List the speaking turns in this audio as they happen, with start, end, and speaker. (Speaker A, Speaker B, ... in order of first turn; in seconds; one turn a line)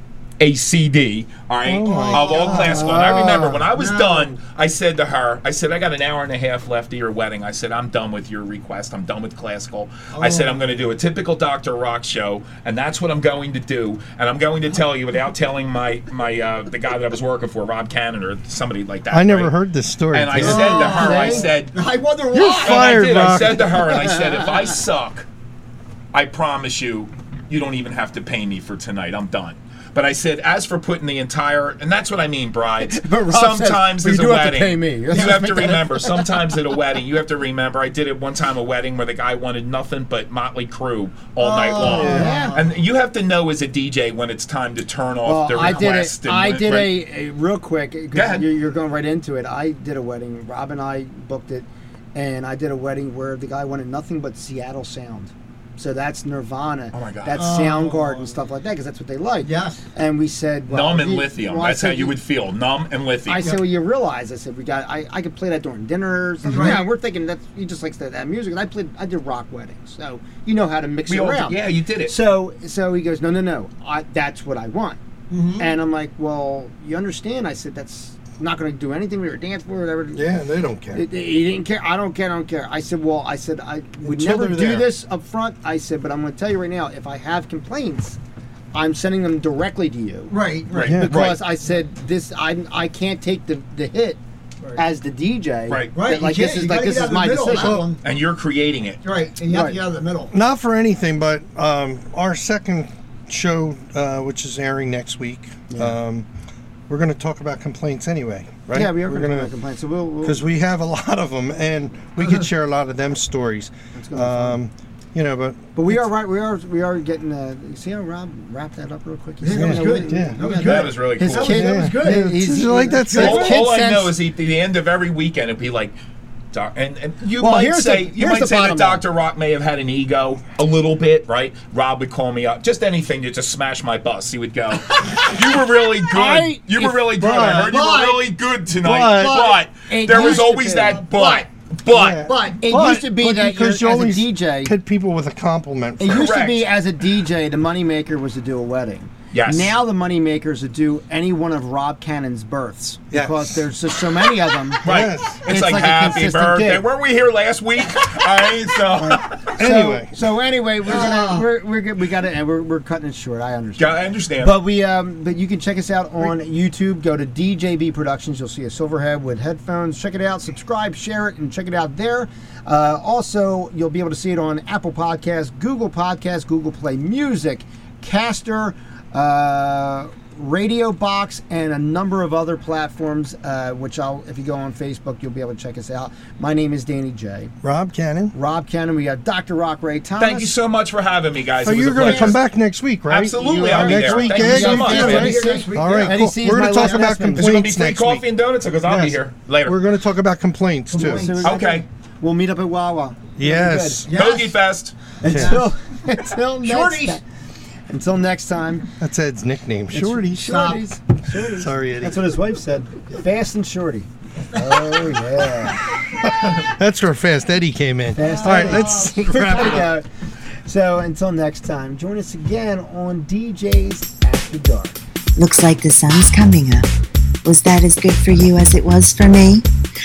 Speaker A: 0.4-19.6
Speaker B: 1.6-2.8
Speaker C: 2.0-3.0
Speaker D: 2.5-3.6
Speaker C: 3.7-4.4
Speaker C: 10.1-10.6
Speaker B: 19.1-20.9
Speaker A: 20.1-21.8
Speaker C: 20.4-23.6
Speaker D: 20.4-21.5
Speaker B: 22.3-23.9
Speaker A: 22.6-25.3
Speaker A: 26.1-47.0
Speaker D: 32.8-36.3
Speaker C: 35.1-35.5
Speaker C: 41.4-42.7
Speaker B: 41.8-42.4
Speaker D: 41.9-42.6
Speaker D: 45.2-62.1
Speaker A: 48.1-48.5
Speaker A: 56.9-57.5
Speaker C: 57.4-58.4
Speaker C: 59.4-59.8
Speaker A: 60.7-63.5
Speaker D: 63.3-75.0
Speaker A: 66.5-66.8
Speaker C: 66.5-66.8
Speaker A: 71.1-72.2
Speaker C: 75.3-75.7
Speaker D: 75.6-80.2
Speaker B: 80.2-81.0
Speaker D: 80.9-88.2
Speaker B: 84.0-84.9
Speaker D: 88.7-90.3
Speaker C: 90.3-91.0
Speaker A: 90.7-91.4
Speaker B: 90.8-91.1
Speaker D: 91.0-94.2
Speaker D: 94.8-97.8
Speaker A: 95.7-95.9
Speaker C: 96.0-98.0
Speaker B: 97.6-97.9
Speaker A: 98.0-99.0
Speaker C: 99.0-100.3
Speaker D: 99.5-99.8
Speaker B: 100.3-106.3
Speaker D: 105.7-106.0
Speaker B: 106.9-109.5
Speaker D: 108.7-110.4
Speaker B: 110.2-116.1
Speaker D: 113.9-114.6
Speaker D: 115.8-124.1
Speaker C: 119.4-123.5
Speaker B: 119.5-120.4
Speaker A: 120.5-121.6
Speaker B: 121.5-123.7
Speaker A: 123.2-126.0
Speaker A: 126.5-142.3
Speaker D: 127.4-129.0
Speaker D: 136.1-137.1
Speaker B: 137.2-137.8
Speaker C: 137.7-138.3
Speaker B: 138.8-139.5
Speaker C: 139.1-141.5
Speaker D: 139.9-141.0
Speaker B: 141.9-146.3
Speaker C: 142.2-142.6
Speaker D: 142.6-144.7
Speaker D: 146.0-154.8
Speaker A: 146.1-146.7
Speaker A: 149.3-149.7
Speaker B: 153.1-153.7
Speaker B: 154.8-155.4
Speaker A: 154.8-159.6
Speaker D: 155.4-156.8
Speaker B: 159.0-160.2
Speaker D: 159.6-187.5
Speaker C: 160.9-161.5
Speaker A: 163.8-164.5
Speaker B: 187.6-188.3
Speaker D: 188.3-190.6
Speaker A: 190.2-192.4
Speaker B: 191.6-198.2
Speaker D: 192.0-192.4
Speaker A: 193.1-195.4
Speaker D: 193.4-197.5
Speaker C: 194.4-197.1
Speaker A: 197.3-199.8
Speaker B: 198.9-201.5
Speaker C: 200.9-201.6
Speaker D: 201.0-204.1
Speaker A: 201.4-201.8
Speaker B: 203.4-204.1
Speaker C: 204.1-204.6
Speaker A: 204.1-204.9
Speaker D: 205.2-207.2
Speaker C: 205.3-205.7
Speaker B: 205.3-205.6
Speaker C: 206.6-207.2
Speaker D: 207.9-208.9
Speaker B: 209.0-210.8
Speaker D: 209.9-215.8
Speaker C: 210.4-210.8
Speaker B: 211.4-212.2
Speaker C: 214.7-215.0
Speaker B: 216.2-219.9
Speaker D: 218.2-220.1
Speaker C: 218.2-219.9
Speaker D: 220.7-225.0
Speaker E: 225.4-226.9
Speaker E: 227.4-229.7